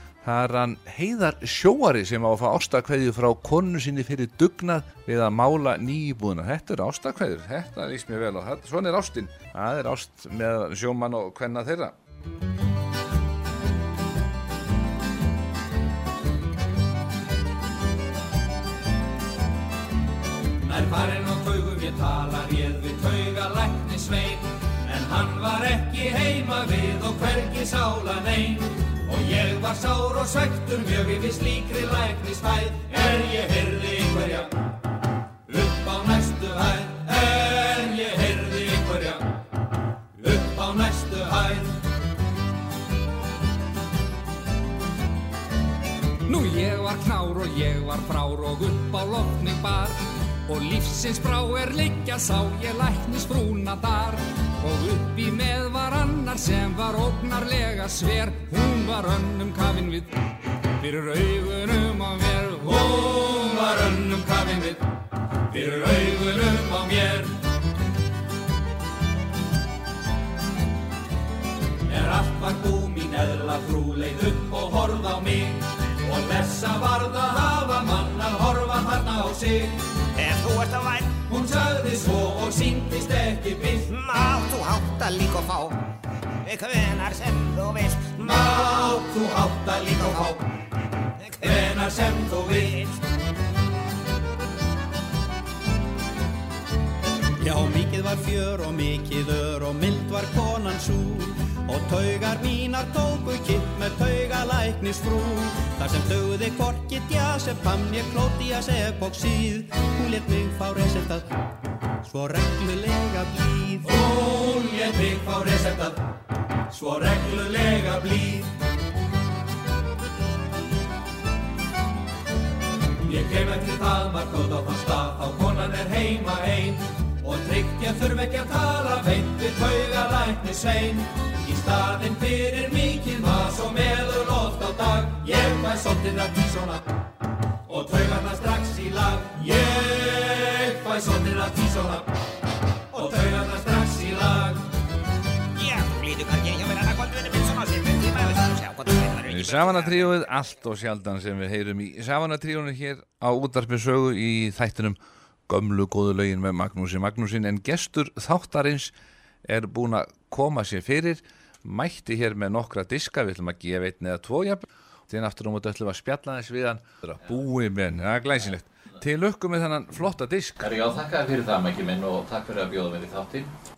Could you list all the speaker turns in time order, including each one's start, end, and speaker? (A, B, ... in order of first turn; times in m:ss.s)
0:00.2-0:11.9 A
0:20.6-0:34.5 B
0:35.5-0:39.2 B
0:40.2-0:41.8 B
0:46.3-1:00.1 C
1:00.8-1:02.8 C
1:02.7-1:04.8 B
1:05.5-1:07.4 B
1:11.8-1:19.8 B
1:20.2-1:21.1 D
1:21.3-1:23.9 B
1:23.9-1:25.8 D
1:26.4-1:28.4 D
1:28.2-1:30.4 B
1:31.2-1:31.8 D
1:31.4-1:32.8 B
1:32.5-1:32.9 D
1:37.4-1:51.3 E
1:52.0-1:53.9 E
1:53.8-1:56.0 B
1:56.7-1:58.5 B
2:03.0-2:16.8 B
2:17.6-2:22.1 B
2:22.9-2:24.6 B
2:22.9-2:23.3 D
2:25.6-2:30.2 D
2:29.2-2:35.0 A
2:35.5-2:38.9 A
2:39.4-2:50.7 A
2:50.6-2:53.5 F